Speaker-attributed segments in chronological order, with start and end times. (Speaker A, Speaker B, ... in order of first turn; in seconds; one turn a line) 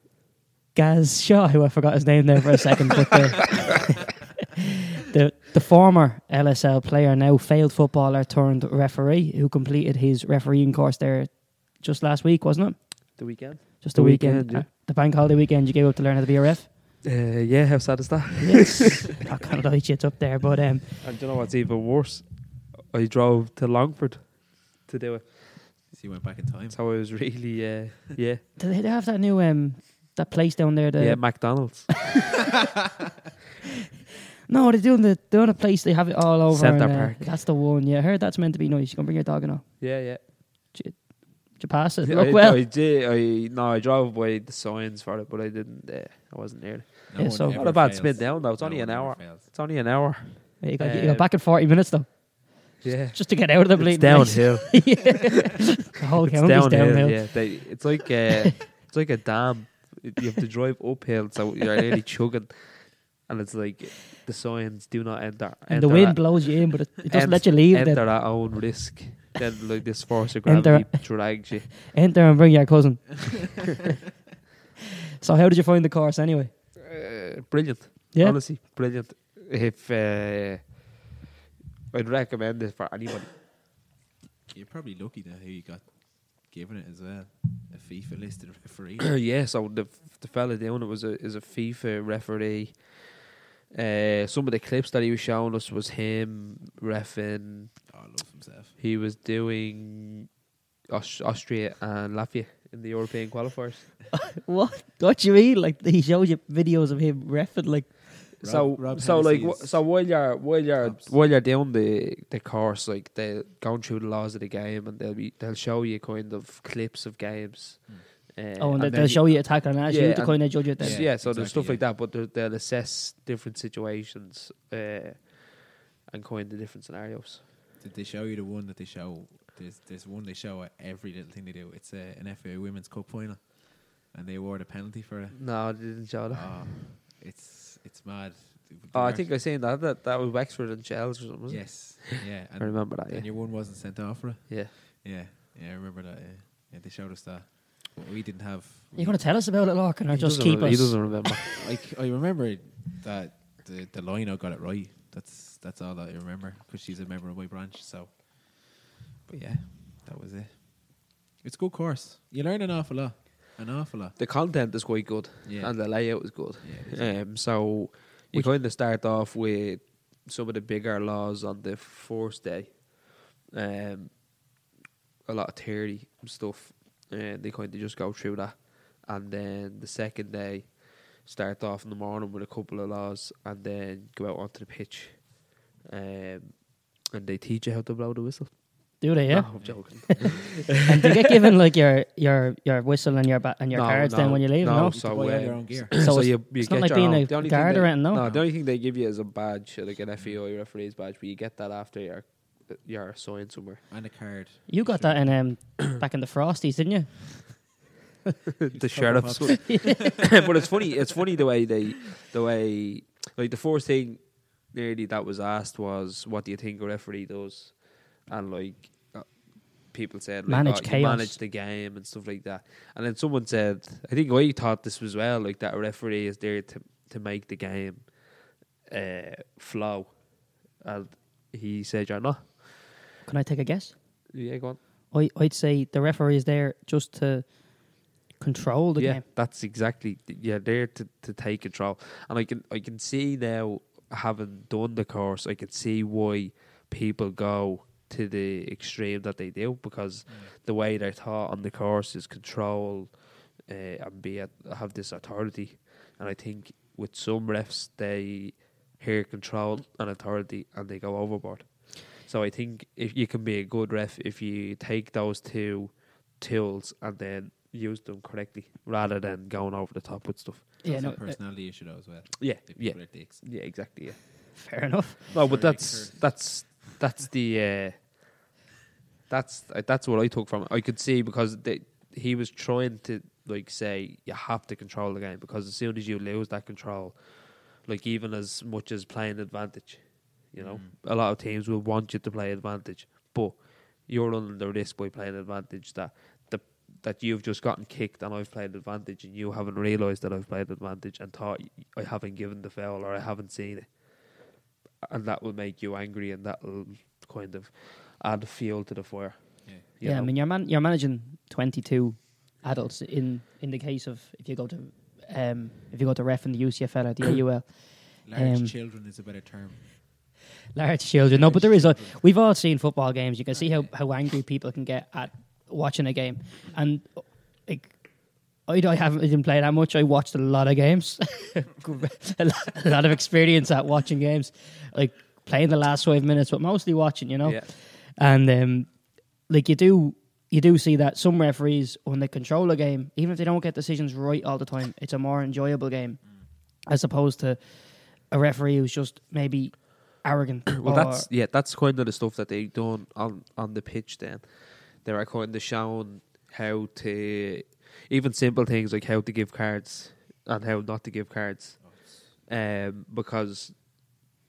Speaker A: 0.7-4.1
Speaker A: 5.0-13.2
Speaker B: 13.2-14.7
Speaker A: 13.8-16.7
Speaker B: 17.0-19.1
Speaker A: 18.4-21.1
Speaker B: 21.0-25.8
Speaker C: 25.9-26.8
Speaker B: 26.7-28.4
Speaker A: 28.6-31.8
Speaker B: 31.0-32.1
Speaker A: 34.5-40.1
Speaker B: 36.5-37.3
Speaker B: 39.8-40.2
Speaker A: 40.7-42.6
Speaker B: 42.0-51.2
Speaker C: 47.1-49.5
Speaker A: 47.2-47.6
Speaker A: 50.6-57.8
Speaker B: 52.8-55.3
Speaker B: 56.3-71.8
Speaker A: 65.7-68.2
Speaker A: 70.5-73.8
Speaker A: 75.2-76.5
Speaker B: 76.8-80.8
Speaker A: 78.1-78.4
Speaker B: 81.9-83.4
Speaker C: 84.5-89.2
Speaker B: 89.0-93.1
Speaker B: 93.7-97.7
Speaker C: 97.9-98.7
Speaker B: 98.8-100.3
Speaker B: 100.9-104.0
Speaker A: 104.1-108.3
Speaker C: 108.4-110.1
Speaker B: 108.4-127.4
Speaker C: 110.8-111.1
Speaker A: 118.6-121.0
Speaker C: 120.8-121.8
Speaker C: 127.8-139.3
Speaker B: 135.3-136.8
Speaker B: 138.9-143.3
Speaker C: 141.5-149.2
Speaker A: 148.9-151.2
Speaker B: 150.1-151.5
Speaker C: 151.4-164.2
Speaker B: 164.2-174.3
Speaker C: 165.4-167.7
Speaker B: 175.2-191.1
Speaker A: 189.0-195.2
Speaker C: 189.6-190.4
Speaker B: 193.7-203.8
Speaker C: 194.8-196.1
Speaker A: 195.9-198.2
Speaker C: 198.2-198.5
Speaker C: 200.2-200.4
Speaker C: 203.9-205.2
Speaker A: 204.7-207.6
Speaker B: 208.6-230.2
Speaker C: 208.7-210.1
Speaker A: 209.7-209.9
Speaker A: 220.5-221.4
Speaker B: 230.8-232.9
Speaker A: 233.2-233.9
Speaker B: 234.3-234.8
Speaker A: 235.1-239.2
Speaker B: 239.0-270.9
Speaker C: 250.3-250.5
Speaker A: 270.8-271.4
Speaker C: 270.8-273.4
Speaker B: 272.4-274.6
Speaker A: 274.6-275.4
Speaker B: 275.3-278.2
Speaker C: 275.4-276.7
Speaker B: 279.3-304.4
Speaker C: 290.6-290.9
Speaker B: 305.0-310.3
Speaker A: 310.0-318.7
Speaker C: 318.2-319.9
Speaker A: 320.8-351.3
Speaker C: 321.3-322.2
Speaker B: 350.8-363.8
Speaker C: 361.8-362.4